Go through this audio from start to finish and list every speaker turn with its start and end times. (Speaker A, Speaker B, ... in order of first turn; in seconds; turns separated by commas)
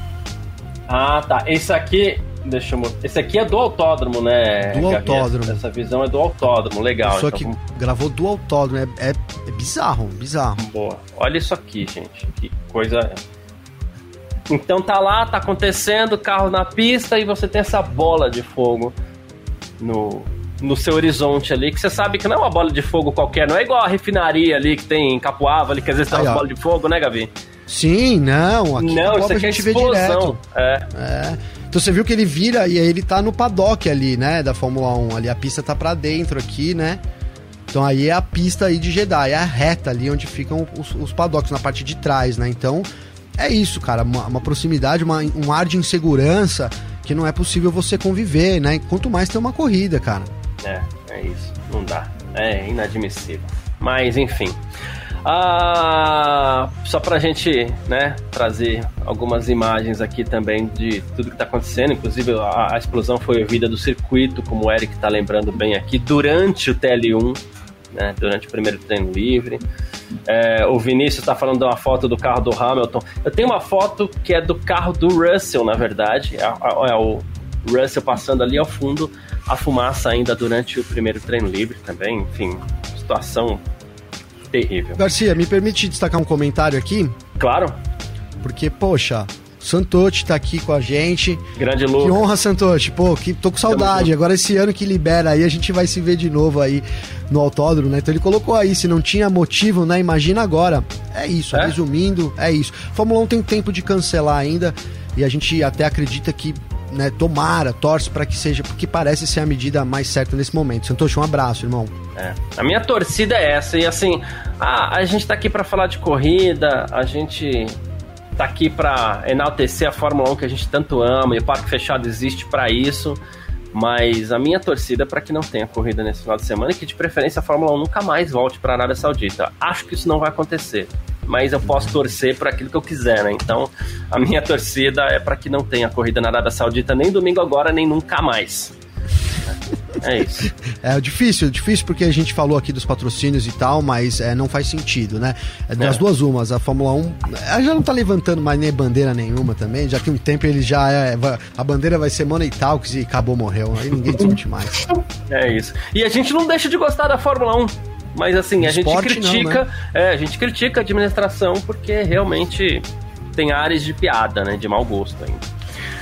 Speaker A: 0.9-7.6, Speaker B: 4.7-5.6, Speaker B: 7.0-10.6, Speaker A: 10.6-13.2, Speaker A: 14.5-18.9, Speaker A: 19.8-27.3, Speaker B: 26.1-26.4, Speaker B: 27.7-30.4, Speaker A: 28.8-30.9, Speaker B: 30.9-37.0, Speaker B: 37.7-42.9, Speaker B: 43.4-50.3, Speaker A: 50.6-54.6, Speaker A: 55.2-67.4, Speaker A: 67.9-69.6, Speaker A: 70.3-83.7, Speaker A: 84.5-85.0, Speaker B: 85.0-87.2, Speaker A: 87.4-87.8, Speaker B: 88.4-91.4, Speaker A: 91.6-92.3, Speaker B: 92.0-111.9, Speaker A: 93.7-94.1, Speaker A: 112.2-117.8, Speaker A: 118.4-123.2, Speaker A: 123.7-138.7, Speaker A: 139.5-140.5, Speaker B: 140.6-154.9, Speaker A: 155.3-165.5, Speaker B: 158.6-159.6